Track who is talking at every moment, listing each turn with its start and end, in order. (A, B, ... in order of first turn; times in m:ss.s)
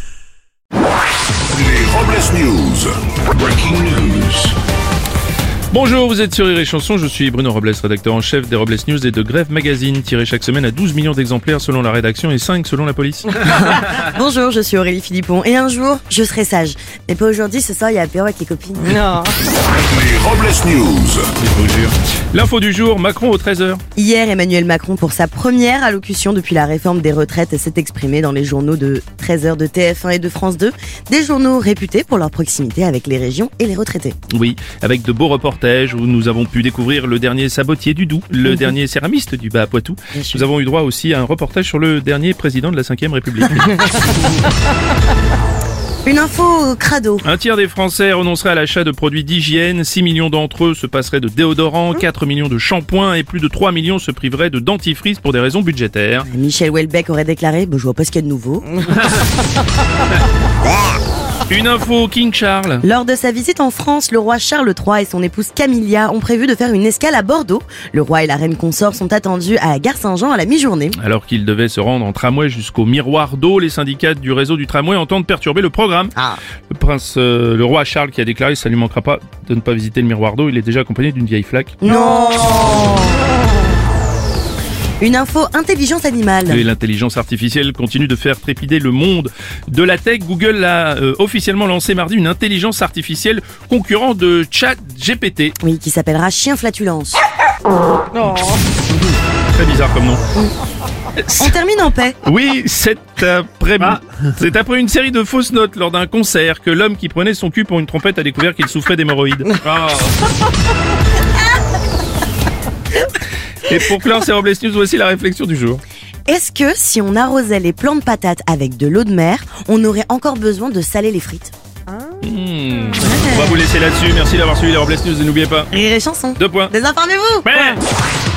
0:01.5-0:04.5 A
0:05.7-0:13.4 B
0:13.4-0:19.2 C
0:19.8-0:21.3 A
0:21.4-0:23.8 B
0:24.0-0:34.2 C
0:34.3-0:44.1 B
0:40.1-0:40.4 C
0:46.0-0:47.2 C
0:47.2-0:56.3 B
0:56.2-0:58.7 C
1:01.5-1:02.8 B
1:02.8-1:11.0 C
1:11.0-1:16.1 B
1:16.7-1:21.8 B
1:21.8-1:23.2 C
1:25.0-1:26.6 C
1:26.5-1:35.6 B
1:35.6-1:37.2 C
1:39.5-1:40.2 B
1:41.2-1:41.6 B
1:41.4-1:42.2 C
1:42.2-1:50.1 B
1:53.6-1:55.8 B
1:56.3-2:01.5 C
2:02.2-2:05.7 B
2:03.0-2:03.6 C
2:05.7-2:07.5 C
2:06.4-2:06.7 B
2:07.4-2:07.8 B